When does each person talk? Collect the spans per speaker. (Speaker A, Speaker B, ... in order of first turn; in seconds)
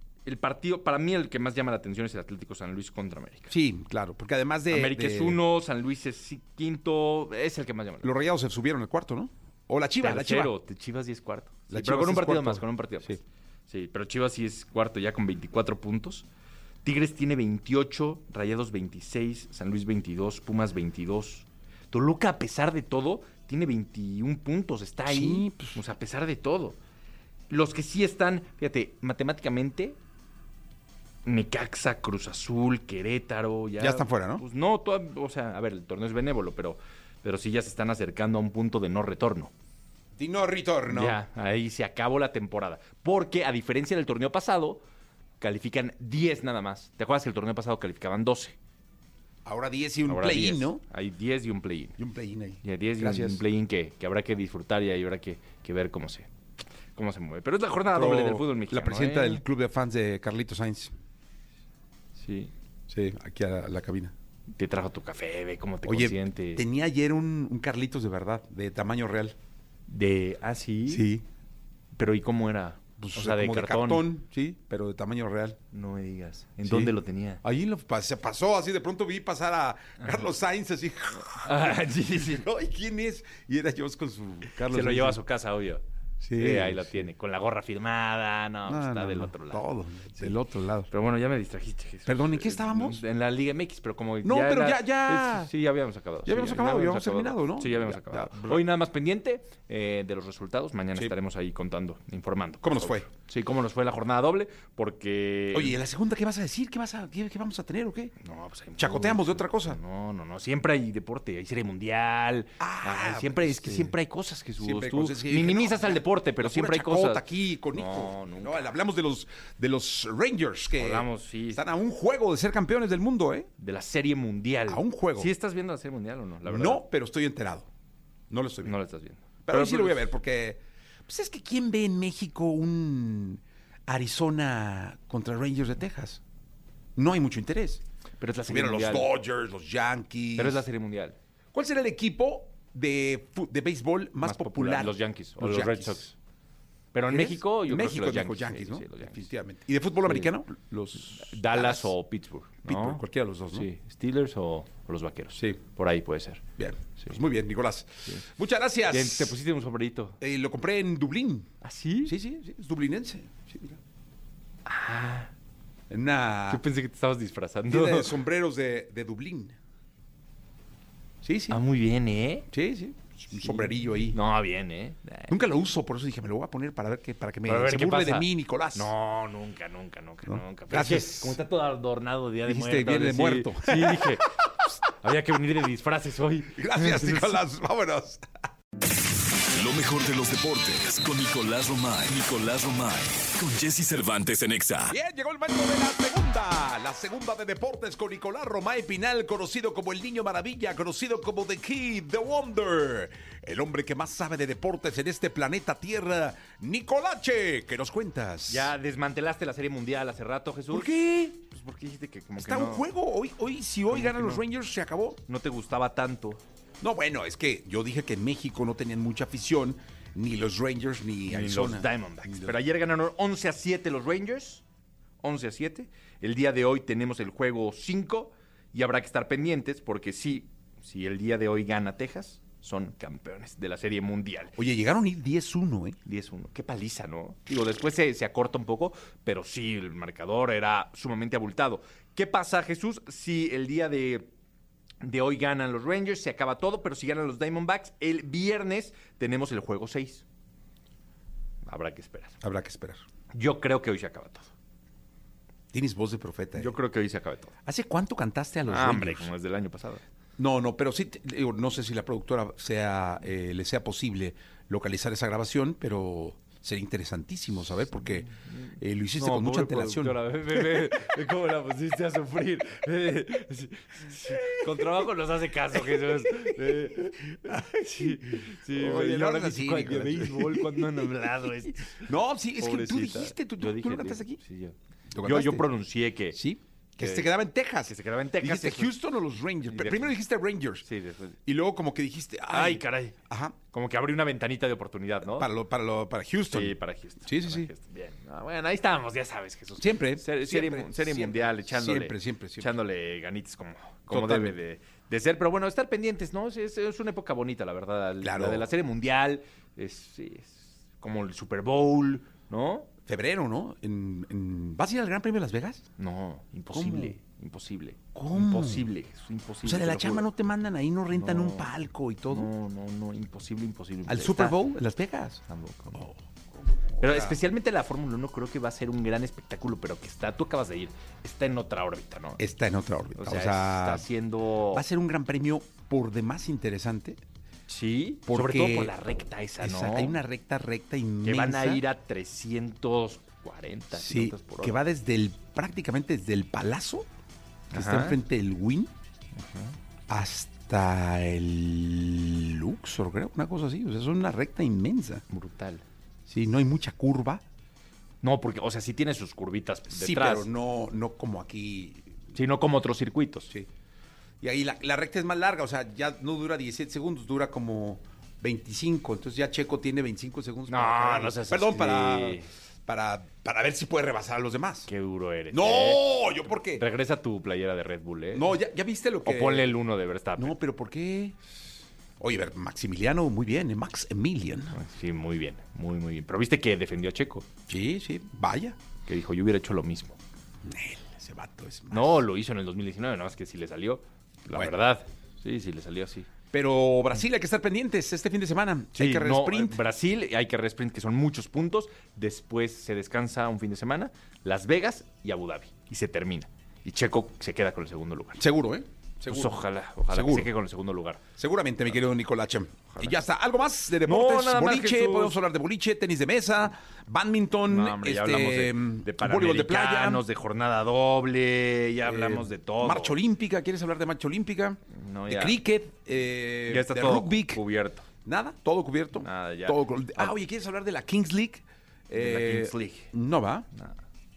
Speaker A: 0.2-3.5, 4.7-8.1, 10.0-16.3, 16.8-26.8, 27.5-30.0, 31.2-39.5, 40.9-44.8, 45.4-48.5, 50.1-52.0, 52.6-56.3, 56.9-59.4, 62.1-62.5, 64.5-66.6, 69.9-71.1, 71.9-74.1, 75.7-77.4, 80.0-80.2, 81.3-82.5, 84.5-85.8, 86.3-90.4, 90.9-105.8, 108.2-118.7, 120.7-121.6, 123.6-126.8, 128.6-130.1, 138.2-139.1, 140.3-141.2, 144.2-146.1, 146.9-149.3, 150.0-150.3, 151.0-156.4, 158.9-160.2, 161.6-162.2, 164.6-165.3, 166.5-168.2, 171.5-172.5, 173.3-175.4, 177.4-187.4, 208.5-212.9, 213.9-214.4, 215.2-216.4, 221.3-224.6, 225.2-234.5, 236.1-244.3, 245.0-250.2, 251.6-252.4, 253.3-254.5, 256.6-257.5, 258.7-260.0, 268.1-286.4, 287.0-287.3, 287.9-288.9, 289.6-290.2, 290.8-291.4, 292.5-293.2, 293.7-295.5, 296.5-312.9, 316.0-320.3, 321.1-321.7, 322.3-324.6, 325.5-326.1, 327.0-332.4, 333.1-334.8, 337.7-340.2, 341.2-344.8, 347.7-348.2, 349.4-349.8, 355.3-355.8, 358.2-360.5, 362.3-363.5, 370.7-372.5, 374.9-376.0, 376.6-378.5, 379.2-380.6, 384.7-387.4, 389.0-390.2, 391.9-396.3, 399.0-408.4, 409.3-411.2, 412.9-413.2, 414.0-415.4, 417.7-423.2, 424.9-425.6, 426.6-428.1, 429.2-430.4, 432.1-433.1
Speaker B: 3.5-5.4, 8.0-10.5, 11.7-13.2, 25.1-25.8, 33.8-34.4, 40.1-41.2, 49.4-50.8, 52.0-53.4, 57.9-60.9, 62.9-64.1, 65.8-69.3, 70.9-71.2, 73.0-75.6, 76.6-76.9, 77.4-85.2, 86.2-86.9, 88.6-90.9, 92.0-93.0, 94.2-95.5, 96.2-98.6, 102.6-103.1, 105.5-108.1, 108.8-109.8, 112.6-113.9, 114.6-123.5, 124.7-125.3, 126.4-127.7, 128.3-128.8, 129.4-136.2, 136.9-137.8, 138.4-140.6, 141.5-146.1, 147.1-151.9, 152.7-153.7, 156.6-159.3, 160.2-161.5, 162.0-163.8, 165.9-166.6, 167.7-169.6, 171.2-171.6, 172.5-174.2, 175.3-178.9, 180.2-181.4, 182.4-184.3, 186.5-188.2, 194.9-208.7, 210.7-211.4, 212.4-215.2, 216.8-222.6, 234.6-236.0, 252.4-253.0, 255.7-256.7, 257.6-259.3, 260.4-270.9, 274.3-274.8, 275.9-281.1, 281.9-284.4, 285.1-285.7, 286.3-290.9, 291.4-293.6, 295.2-297.7, 299.8-302.7, 304.1-304.6, 308.2-308.7, 313.1-315.8, 316.7-317.1, 318.1-318.9, 319.6-322.5, 324.1-325.4, 326.8-327.4, 332.4-334.1, 334.7-337.2, 338.2-338.9, 339.6-341.8, 343.9-347.1, 347.7-348.9, 350.1-355.2, 356.3-357.4, 359.9-362.2, 364.4-374.9, 375.5-376.8, 378.3-379.7, 380.4-381.4, 382.2-384.8, 387.7-388.8, 390.6-392.2, 396.5-399.8, 408.4-409.6, 410.1-410.5, 411.4-420.2, 422.0-427.6, 428.2-433.6
Speaker C: 189.5-194.9